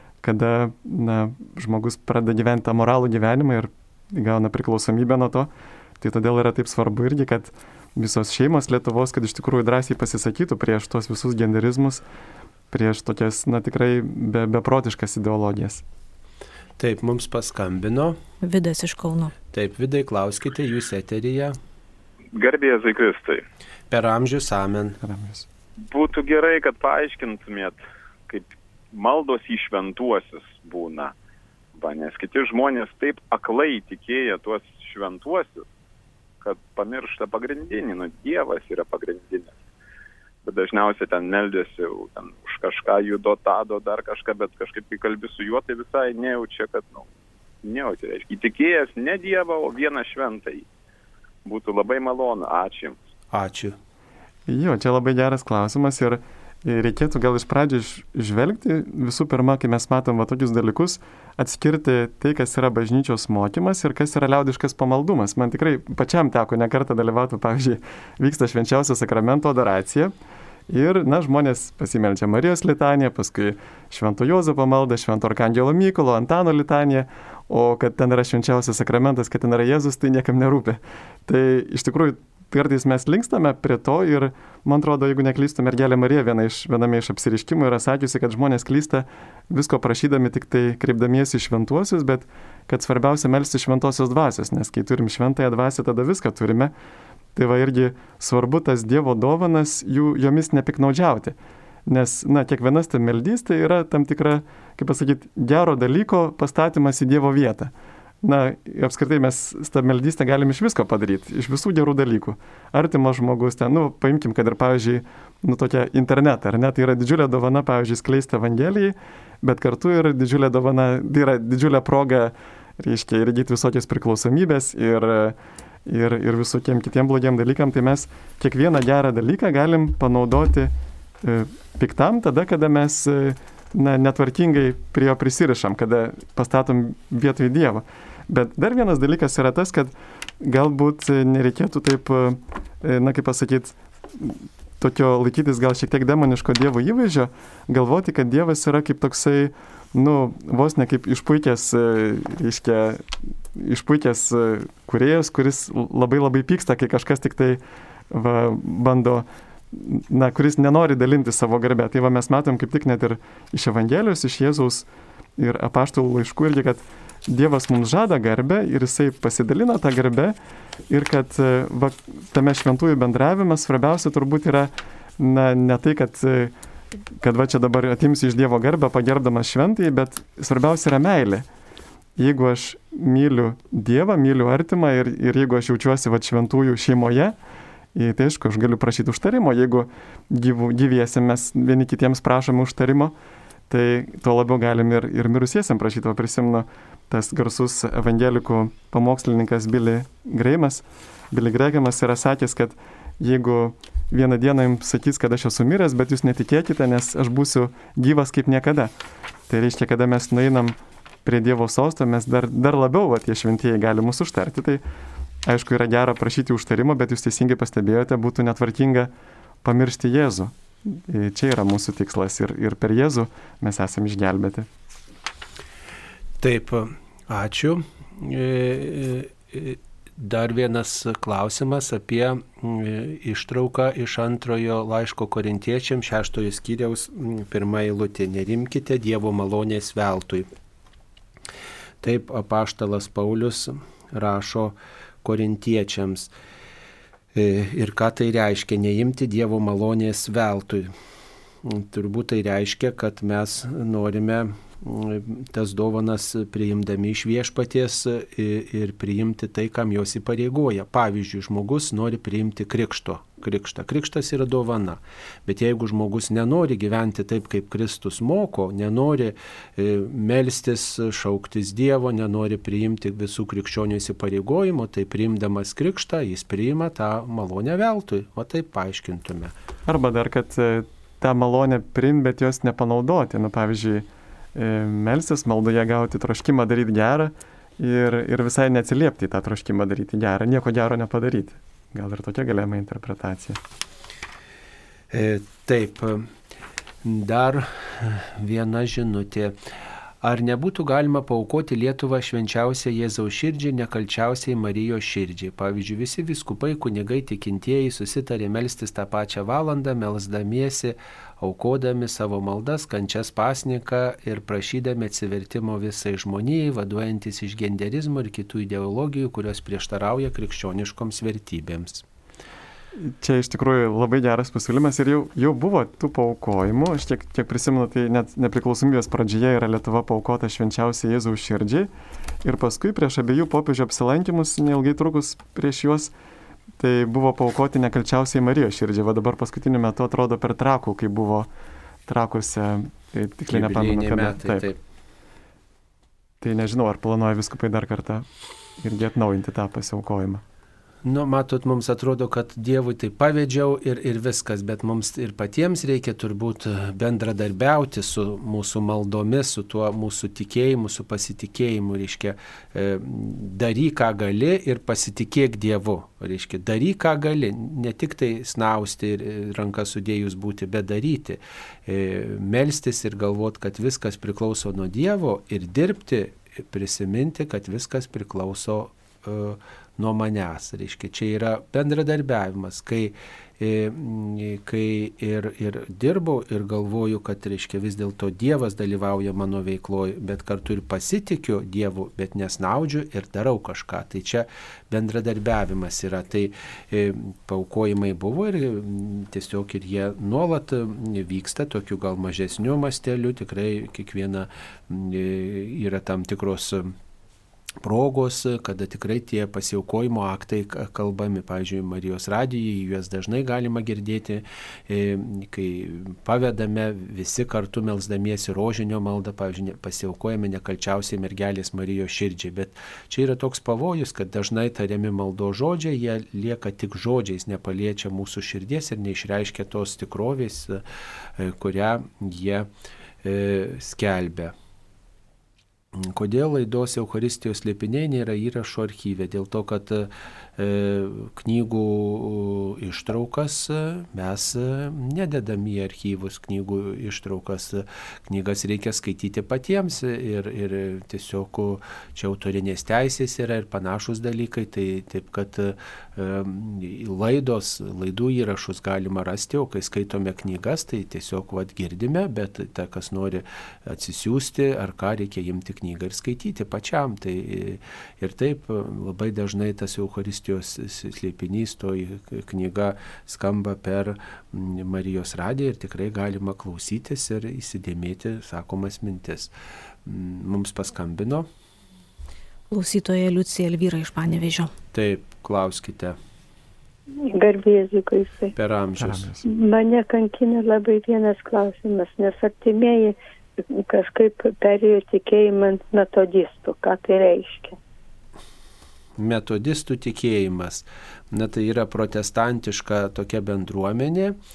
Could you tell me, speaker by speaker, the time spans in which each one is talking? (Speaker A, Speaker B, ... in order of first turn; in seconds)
Speaker A: 0.2-12.0, 12.7-15.8, 25.0-25.5, 54.5-70.1, 70.7-96.7, 97.3-170.4, 170.9-176.5, 177.2-181.5, 182.2-187.4, 187.9-193.2, 193.7-208.9, 209.5-214.8, 215.4-219.1, 219.6-224.7, 279.9-293.6, 323.0-331.9, 332.4-336.1, 336.8-341.5, 342.1-344.7, 346.4-348.3, 348.8-350.4, 489.0-489.4
Speaker B: 16.8-18.2, 19.5-21.6, 23.9-25.0, 53.3-53.8, 226.4-240.5, 242.0-246.3, 247.3-250.9, 251.6-279.5, 295.1-296.3, 297.0-299.6, 300.2-322.1, 343.5-344.8, 351.1-406.9, 407.8-430.8, 431.4-432.7, 433.2-434.5, 436.0-479.5, 480.1-481.5, 484.9-486.2, 488.6-489.3, 499.2-504.4
Speaker C: 18.4-19.3, 482.7-484.7
Speaker D: 22.3-23.4, 25.9-31.1, 31.8-35.7, 36.4-39.5, 40.4-47.1, 47.6-50.7, 51.5-53.0
Speaker E: 487.3-488.5, 489.4-497.8